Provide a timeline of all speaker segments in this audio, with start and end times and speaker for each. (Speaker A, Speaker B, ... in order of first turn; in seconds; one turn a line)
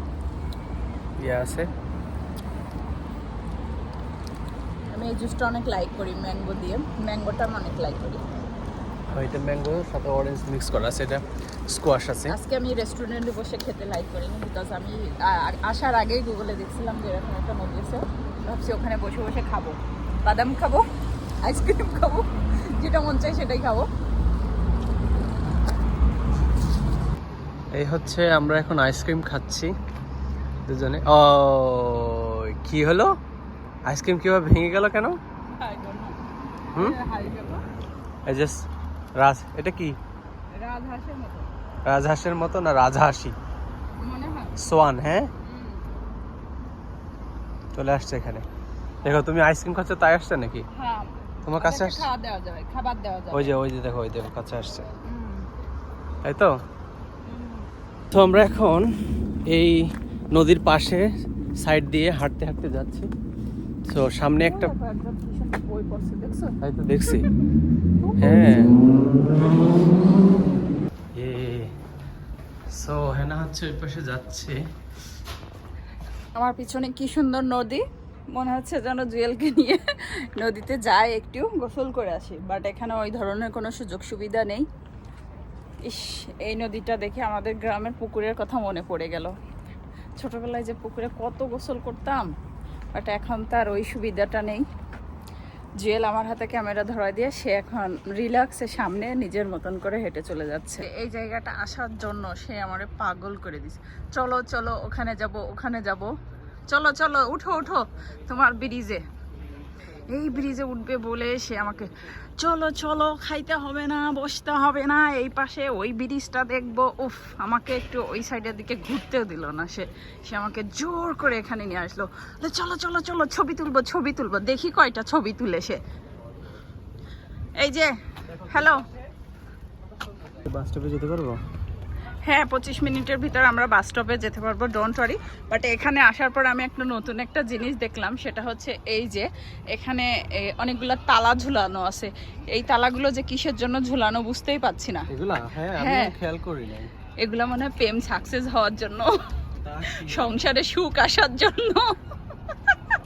Speaker A: 1.2-1.7
Speaker B: 4.9-8.2
Speaker A: 9.1-12.3
Speaker B: 12.3-20.8
Speaker B: 21.4-22.2
Speaker B: 22.8-23.9
Speaker A: 27.7-29.7
Speaker A: 30.7-33.1
Speaker A: 33.9-35.2
Speaker B: 35.5-36.2
Speaker B: 36.7-37.6
Speaker A: 38.2-38.6
Speaker A: 39.2-40.0
Speaker B: 40.5-41.5
Speaker A: 41.9-43.4
Speaker B: 44.0-44.5
Speaker A: 44.6-45.3
Speaker B: 45.4-45.9
Speaker A: 47.7-48.4
Speaker A: 49.0-50.7
Speaker B: 50.7-53.5
Speaker A: 51.5-52.1
Speaker A: 53.3-54.9
Speaker B: 55.0-55.5
Speaker A: 56.2-56.5
Speaker B: 57.2-57.7
Speaker A: 58.1-58.9
Speaker A: 59.5-61.1
Speaker A: 61.6-63.1
Speaker A: 63.9-64.7
Speaker B: 64.4-66.6
Speaker A: 66.6-67.2
Speaker B: 67.1-67.3
Speaker B: 68.0-68.7
Speaker A: 68.2-68.7
Speaker A: 71.2-71.7
Speaker A: 72.7-74.6
Speaker B: 76.3-84.7
Speaker B: 85.8-89.3
Speaker B: 90.2-92.3
Speaker B: 92.9-94.6
Speaker B: 95.8-106.1
Speaker B: 106.7-109.0
Speaker B: 110.1-125.8
Speaker B: 127.6-128.8
Speaker A: 130.4-131.4
Speaker B: 132.2-145.1
Speaker A: 145.1-146.9
Speaker B: 145.8-146.1
Speaker B: 147.2-149.1
Speaker A: 149.6-150.4
Speaker B: 149.9-152.0